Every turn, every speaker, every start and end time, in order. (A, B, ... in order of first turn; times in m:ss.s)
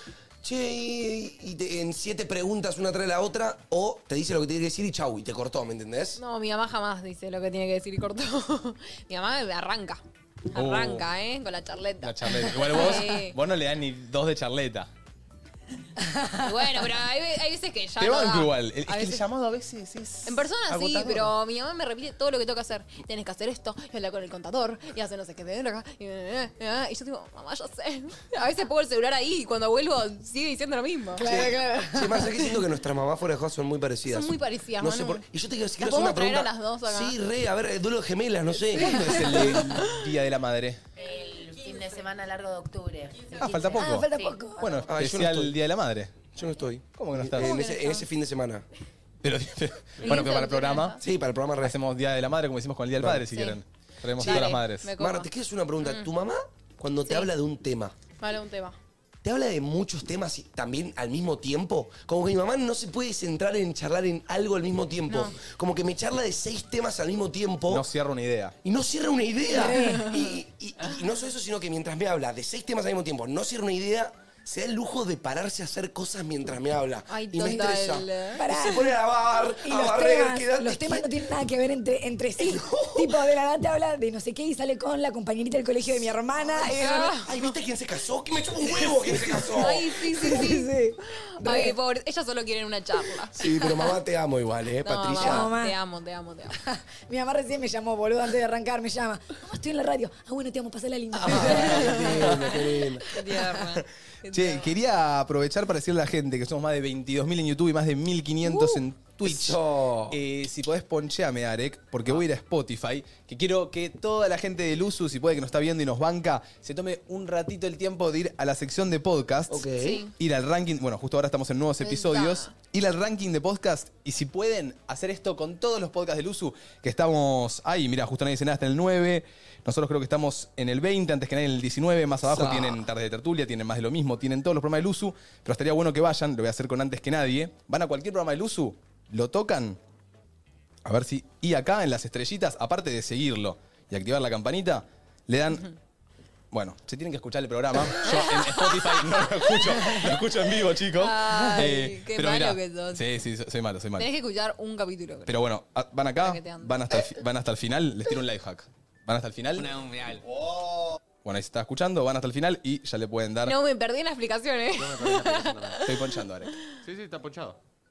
0:00.4-0:06.2 A
0:06.2-0:10.0 B
0:10.5-0:13.4 B
0:10.6-0:11.0 C
0:12.0-0:14.9 C
0:12.7-0:13.0 D
0:16.1-0:16.4 D
0:16.4-0:19.2 B
0:18.0-0:21.3 C
0:20.3-0:31.3 B
0:31.2-0:32.4 D
0:31.2-0:39.7 A
0:34.1-0:35.2 B
0:35.8-0:37.2 B
0:38.8-0:40.0 B
0:39.0-0:40.8 C
0:41.0-0:44.9 E
0:43.4-0:46.2 C
0:43.8-0:44.7 D
0:44.9-0:45.6 A
0:46.3-0:48.6 A
0:47.0-0:47.6 C
0:47.4-0:48.0 B
0:49.2-0:51.0 C
0:50.0-0:51.0 B
0:51.0-0:51.8 A
0:51.6-0:54.9 C
0:53.3-0:53.6 B
0:54.2-0:55.3 B
0:54.2-0:57.9 A
0:55.8-0:56.1 B
0:58.2-0:58.8 B
0:59.2-1:07.9 A
1:05.1-1:05.3 B
1:07.7-1:08.6 C
1:08.6-1:21.1 A
1:09.5-1:10.0 D
1:09.7-1:10.3 B
1:17.1-1:18.4 B
1:17.4-1:17.7 D
1:18.4-1:18.9 D
1:19.6-1:27.1 D
1:22.4-1:23.1 A
1:26.6-1:27.5 B
1:27.2-1:29.9 A
1:29.1-1:29.4 D
1:29.6-1:30.7 B
1:30.2-1:31.7 D
1:31.4-1:33.3 B
1:33.3-1:35.5 A
1:34.8-1:36.6 B
1:35.2-1:35.7 D
1:36.6-1:42.4 D
1:41.2-1:43.0 A
1:43.1-1:44.7 B
1:44.3-1:49.6 C
1:49.2-1:50.2 A
1:50.1-1:59.6 C
1:59.5-2:00.0 A
1:59.8-2:00.1 B
2:00.2-2:19.8 C
2:01.8-2:02.5 B
2:12.2-2:12.8 A
2:20.8-2:25.7 C
2:26.5-2:34.1 C
2:28.0-2:29.2 B
2:31.0-2:33.0 B
2:34.0-2:35.3 B
2:35.3-2:39.7 C
2:36.2-2:36.7 B
2:39.6-2:40.2 F
2:41.2-2:43.6 C
2:43.4-2:46.6 B
2:44.7-2:45.8 F
2:45.8-2:46.5 C
2:46.8-2:47.6 F